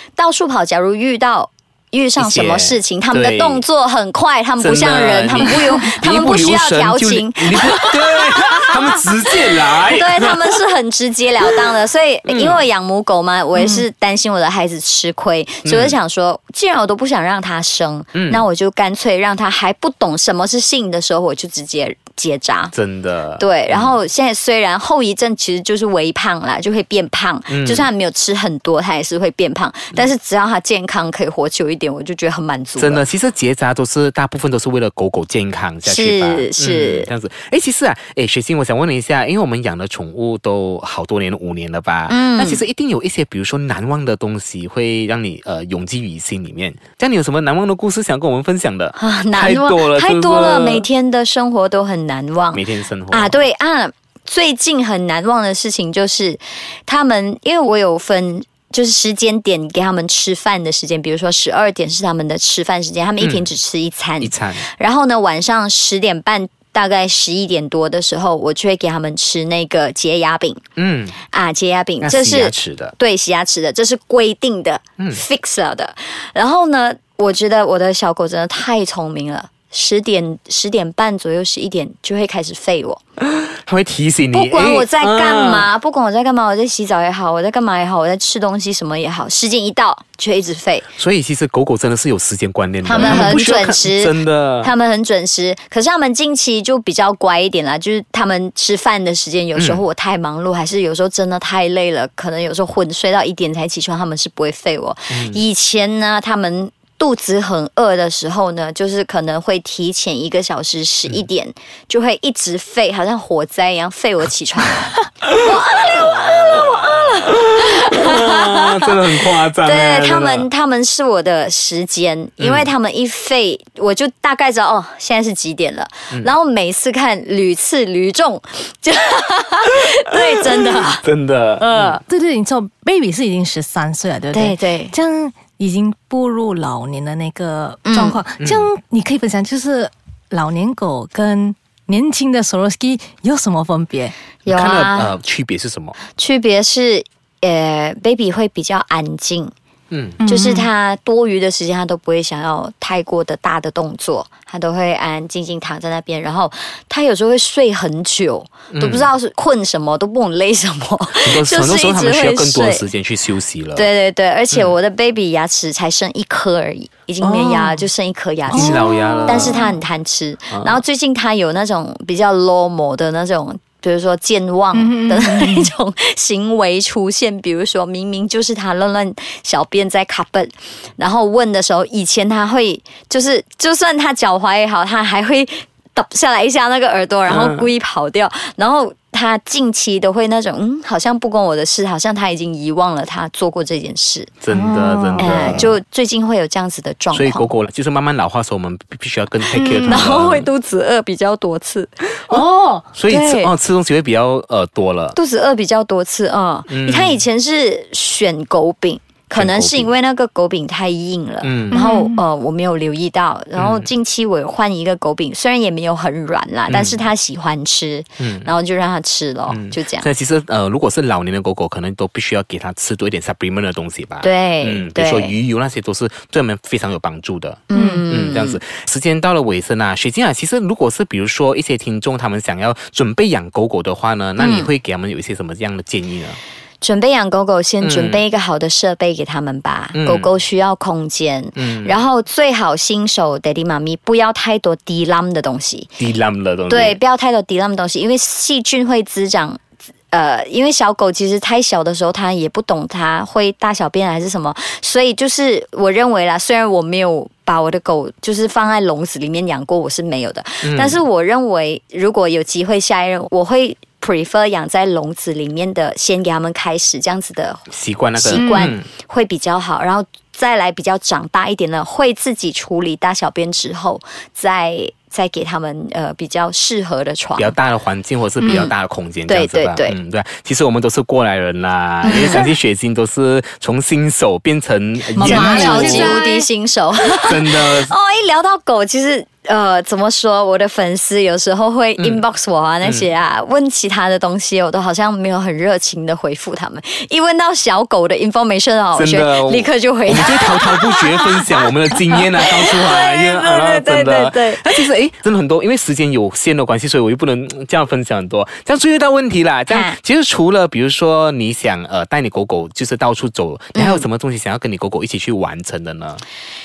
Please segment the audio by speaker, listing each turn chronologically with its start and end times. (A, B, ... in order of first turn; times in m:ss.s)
0:00.2-0:22.7 A
0:02.2-0:03.6 B
0:04.6-0:10.6 B
0:12.3-0:12.6 B
0:13.6-0:13.8 C
0:15.6-0:16.0 B
0:18.2-0:18.4 B
0:22.7-0:24.0 B
0:23.4-0:33.0 A
0:27.5-0:27.9 B
0:32.8-0:50.9 B
0:35.8-0:37.1 A
0:42.1-0:42.6 A
0:49.0-1:10.6 A
0:52.5-0:53.4 B
1:03.2-1:03.5 B
1:04.2-1:04.6 B
1:10.8-1:11.2 B
1:11.3-1:23.0 A
1:12.0-1:12.9 B
1:23.2-1:25.7 B
1:24.3-1:30.9 A
1:31.0-1:34.7 B
1:32.8-1:59.0 A
1:33.0-1:33.4 C
1:39.6-1:39.8 B
1:45.1-1:45.4 B
1:55.3-2:00.5 B
1:59.6-2:11.0 A
2:02.4-2:02.7 B
2:11.0-2:12.0 B
2:11.6-2:12.0 A
2:12.1-2:24.2 C
2:14.3-2:15.0 A
2:17.8-2:18.2 A
2:18.4-2:18.7 B
2:24.4-2:25.2 A
2:24.5-2:26.0 B
2:26.1-2:29.5 A
2:29.9-2:30.2 B
2:30.2-2:30.7 C
2:30.3-2:42.8 A
2:38.7-2:39.1 B
2:41.2-2:43.9 B
2:43.8-3:14.3 A
2:47.2-2:47.8 B
2:48.5-2:49.7 C
2:48.5-2:49.6 B
2:50.5-2:50.8 B
2:54.7-2:55.7 C
3:07.3-3:07.7 B
3:14.4-3:15.8 B
3:14.5-3:15.7 C
3:15.2-3:17.5 A
3:17.1-3:20.5 B
3:19.5-3:20.0 C
3:19.9-3:22.1 A
3:22.3-3:22.9 C
3:22.3-3:25.2 B
3:23.1-3:23.5 A
3:25.2-3:40.1 A
3:26.7-3:27.2 B
3:29.3-3:29.9 B
3:31.4-3:31.9 B
3:31.7-3:32.2 C
3:33.6-3:33.9 B
3:36.7-3:37.1 B
3:38.2-3:38.5 B
3:39.5-3:56.4 B
3:44.2-3:45.4 A
3:47.7-3:48.6 A
3:47.7-3:48.0 C
3:54.4-3:54.7 A
3:56.8-4:05.9 A
3:57.8-3:58.2 B
3:59.9-4:00.3 B
4:01.6-4:02.0 B
4:06.0-4:07.0 B
4:06.7-4:37.6 A
4:20.6-4:21.0 B
4:27.7-4:28.9 B
4:28.4-4:28.8 C
4:37.4-4:46.2 B
4:38.4-4:38.7 A
4:39.3-4:40.0 A
4:42.0-4:42.5 A
4:42.1-4:42.4 C
4:45.2-4:46.5 C
4:45.2-5:01.5 A
4:47.2-4:47.9 B
4:52.0-4:52.2 B
4:52.8-4:53.1 B
4:59.0-5:16.2 B
5:02.1-5:04.7 A
5:09.7-5:10.0 A
5:13.8-5:14.1 A